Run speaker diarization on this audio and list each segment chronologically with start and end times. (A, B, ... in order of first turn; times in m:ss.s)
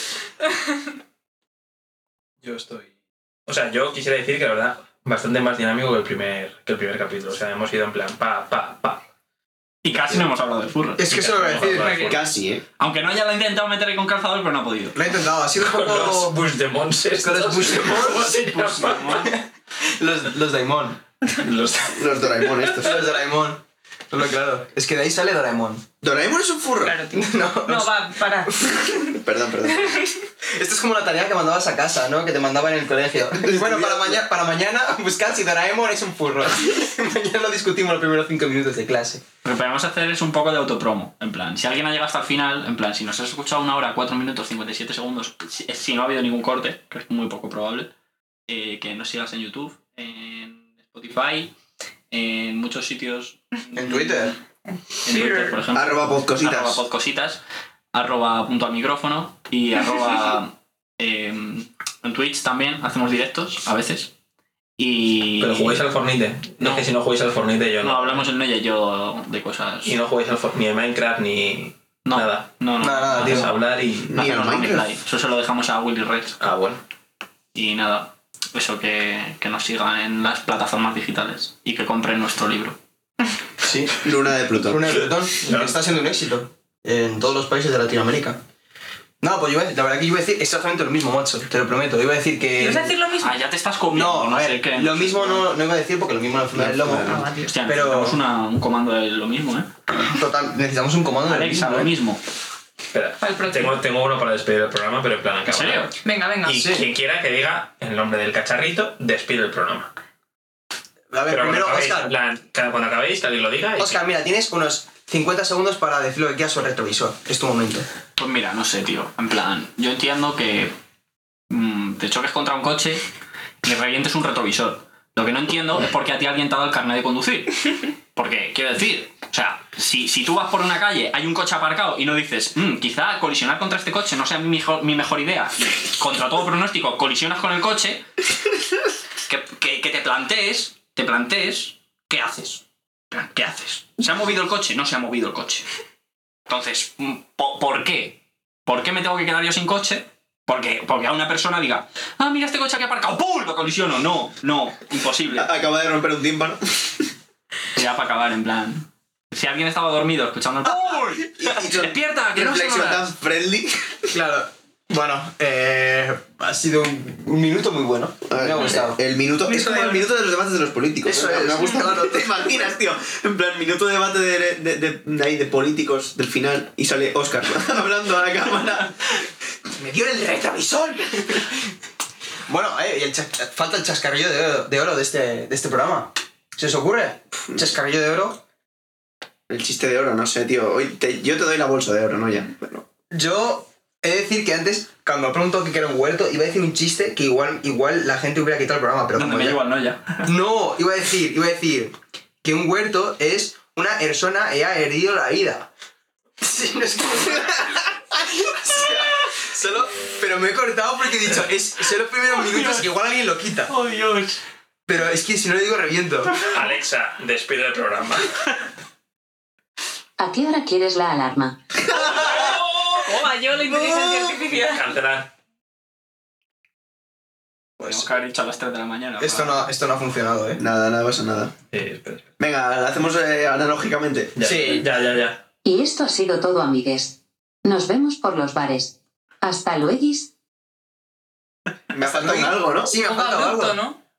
0:02.4-0:02.9 A
0:03.5-0:09.0 A
0:09.8-0:11.1 B
0:09.9-0:10.2 A
0:11.0-0:12.0 C
0:11.1-0:12.3 A
0:11.8-0:12.2 D
0:12.0-0:12.6 E
0:12.8-0:15.0 B
0:14.9-0:16.4 C
0:15.6-0:19.3 A
0:17.2-0:18.4 C
0:17.7-0:19.3 B
0:19.0-0:21.0 C
0:21.3-0:22.5 A
0:21.9-0:23.0 E
0:22.7-0:25.8 C
0:26.0-0:27.1 E
0:26.8-0:29.0 D
0:27.1-0:28.8 C
0:28.8-0:30.0 E
0:29.7-0:30.2 D
0:30.5-0:39.2 C
0:33.3-0:34.2 E
0:39.4-0:47.9 B
0:48.5-0:51.5 B
0:52.1-0:54.3 B
0:53.7-0:54.4 C
0:54.9-0:55.6 D
0:55.0-0:57.4 B
0:55.7-0:56.8 E
0:57.9-1:04.1 B
1:04.8-1:05.8 B
1:05.4-1:08.3 A
1:06.6-1:06.9 B
1:07.8-1:10.0 B
1:09.8-1:12.5 A
1:12.0-1:13.6 B
1:12.8-1:13.5 C
1:13.1-1:14.2 A
1:14.0-1:14.8 E
1:14.1-1:16.4 B
1:16.4-1:16.8 A
1:17.6-1:22.8 B
1:23.6-1:24.0 C
1:24.0-1:25.1 E
1:24.6-1:28.4 C
1:25.4-1:25.8 A
1:29.2-1:32.9 C
1:32.6-1:33.4 D
1:33.2-1:35.4 B
1:33.9-1:38.2 C
1:36.5-1:37.3 E
1:37.1-1:37.6 D
1:37.4-1:39.7 B
1:40.0-1:41.9 C
1:41.2-1:42.2 B
1:42.9-1:49.9 A
1:43.2-1:43.8 D
1:45.5-1:45.9 B
1:46.0-1:46.7 D
1:46.5-1:46.9 C
1:51.1-1:52.1 C
1:51.3-1:54.0 A
1:53.8-1:57.9 C
1:58.2-2:00.7 B
2:01.5-2:03.0 B
2:03.6-2:18.0 B
2:19.3-2:25.6 B
2:26.5-2:35.5 B
2:35.3-2:37.1 E
2:37.7-2:43.1 B
2:40.8-2:41.1 C
2:41.4-2:44.1 E
2:44.1-2:50.1 C
2:48.3-2:59.2 E
2:51.0-2:52.7 C
2:59.8-3:01.4 C
3:01.1-3:01.4 E
3:02.5-3:08.4 C
3:09.5-3:12.8 E
3:13.1-3:19.6 C
3:19.1-3:20.3 B
3:20.2-3:25.7 C
3:26.4-3:33.7 C
3:32.4-3:32.9 B
3:33.7-3:34.4 B
3:34.9-3:36.4 C
3:36.4-3:38.6 A
3:40.2-3:41.6 F
3:41.9-3:42.3 E
3:42.0-3:44.9 D
3:42.2-3:43.1 B
3:44.6-3:45.3 A
3:47.8-3:48.1 C
3:47.8-3:49.7 B
3:49.2-3:50.6 C
3:50.6-3:51.5 E
3:51.7-3:52.3 A
3:52.4-3:54.4 E
3:54.4-3:55.4 A
3:54.4-3:54.9 C
3:55.6-4:00.3 F
4:01.9-4:03.0 E
4:02.0-4:03.8 C
4:02.9-4:04.0 D